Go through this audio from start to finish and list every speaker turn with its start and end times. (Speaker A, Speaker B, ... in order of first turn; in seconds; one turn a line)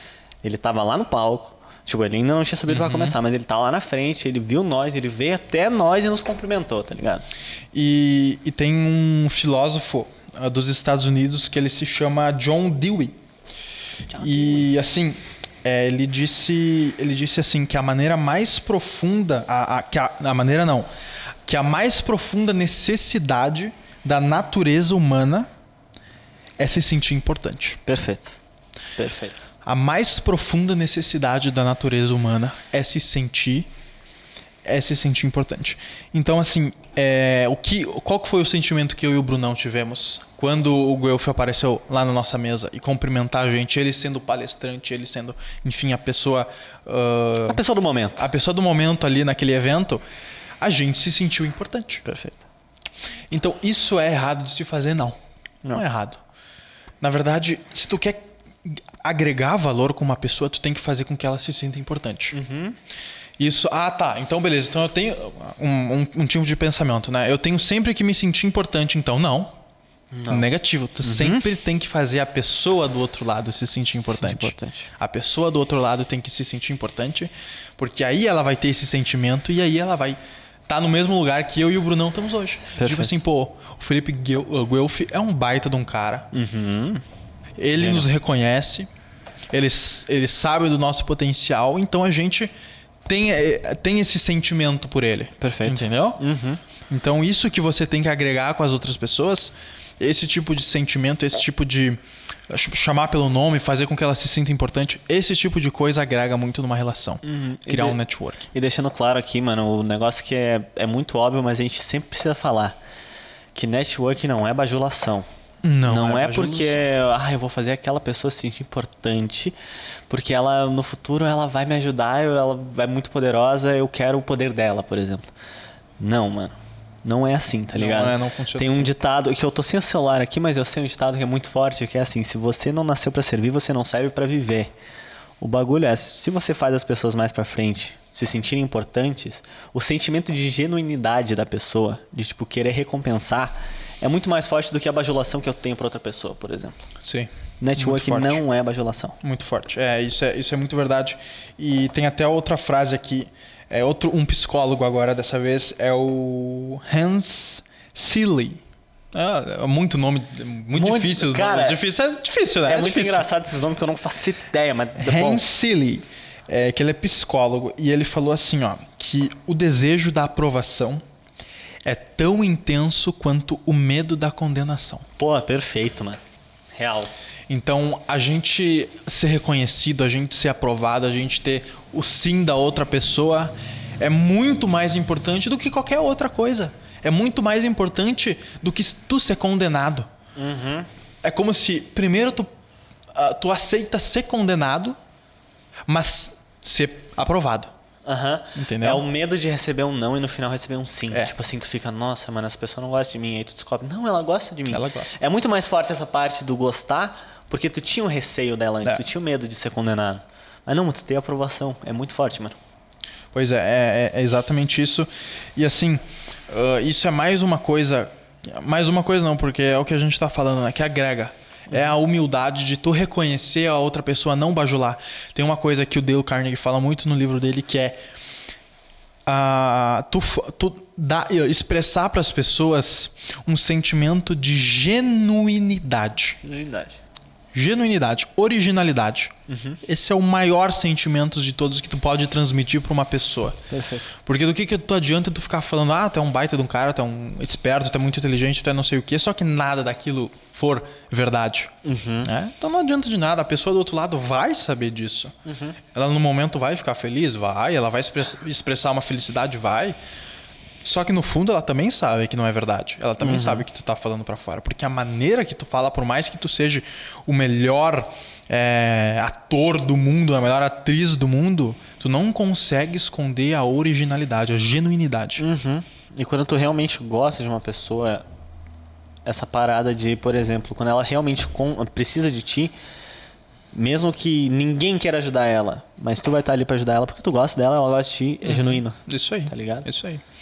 Speaker A: 0.4-7.2
Speaker B: 2.7-3.2
Speaker B: 7.7-13.2
Speaker A: 14.1-14.6
Speaker B: 14.1-20.9
Speaker B: 21.5-25.5
Speaker B: 26.6-27.8
Speaker A: 27.9-28.4
Speaker A: 29.0-29.5
Speaker B: 29.6-33.7
Speaker B: 34.6-47.6
Speaker A: 47.5-48.2
Speaker B: 48.2-50.0
Speaker B: 50.6-52.0
Speaker A: 52.0-52.4
Speaker B: 53.3-55.2
Speaker B: 55.7-56.2
Speaker B: 57.0-62.4
Speaker A: 62.3-62.8
Speaker B: 63.4-69.5
Speaker A: 70.1-70.5
Speaker B: 70.3-86.3
Speaker A: 71.0-71.4
Speaker A: 74.1-74.9
Speaker A: 82.8-83.1
Speaker A: 86.3-87.0
Speaker B: 87.6-88.9
Speaker A: 87.8-88.1
Speaker B: 89.5-92.5
Speaker B: 93.0-96.2
Speaker A: 95.4-96.6
Speaker B: 96.9-108.5
Speaker A: 107.2-108.0
Speaker A: 108.5-112.8
Speaker A: 113.5-115.3
Speaker B: 115.6-116.9
Speaker A: 115.9-119.5
Speaker A: 120.1-125.2
Speaker A: 126.0-134.7
Speaker B: 127.7-128.9
Speaker A: 135.4-146.7
Speaker B: 147.0-148.4
Speaker A: 147.6-149.2
Speaker B: 149.2-158.6
Speaker B: 159.1-163.2
Speaker A: 160.7-161.8
Speaker A: 162.7-165.4
Speaker B: 165.0-171.0
Speaker B: 171.8-175.1
Speaker A: 175.2-176.2
Speaker A: 176.7-177.1
Speaker B: 177.5-190.1
Speaker A: 190.3-190.9
Speaker B: 191.2-192.5
Speaker B: 193.1-194.9
Speaker B: 195.9-197.7
Speaker A: 198.0-212.6
Speaker B: 198.6-199.0
Speaker B: 204.7-205.2
Speaker B: 213.3-227.9
Speaker B: 229.2-236.4
Speaker A: 236.4-237.0
Speaker B: 237.5-243.6
Speaker A: 239.5-239.8
Speaker A: 243.7-244.1
Speaker B: 244.2-251.7
Speaker A: 251.8-252.3
Speaker B: 252.2-255.3
Speaker A: 255.4-255.8
Speaker B: 255.9-259.9
Speaker B: 260.8-275.4
Speaker A: 263.2-263.6
Speaker A: 275.4-278.2
Speaker A: 279.2-282.7
Speaker A: 283.7-289.9
Speaker B: 288.4-290.2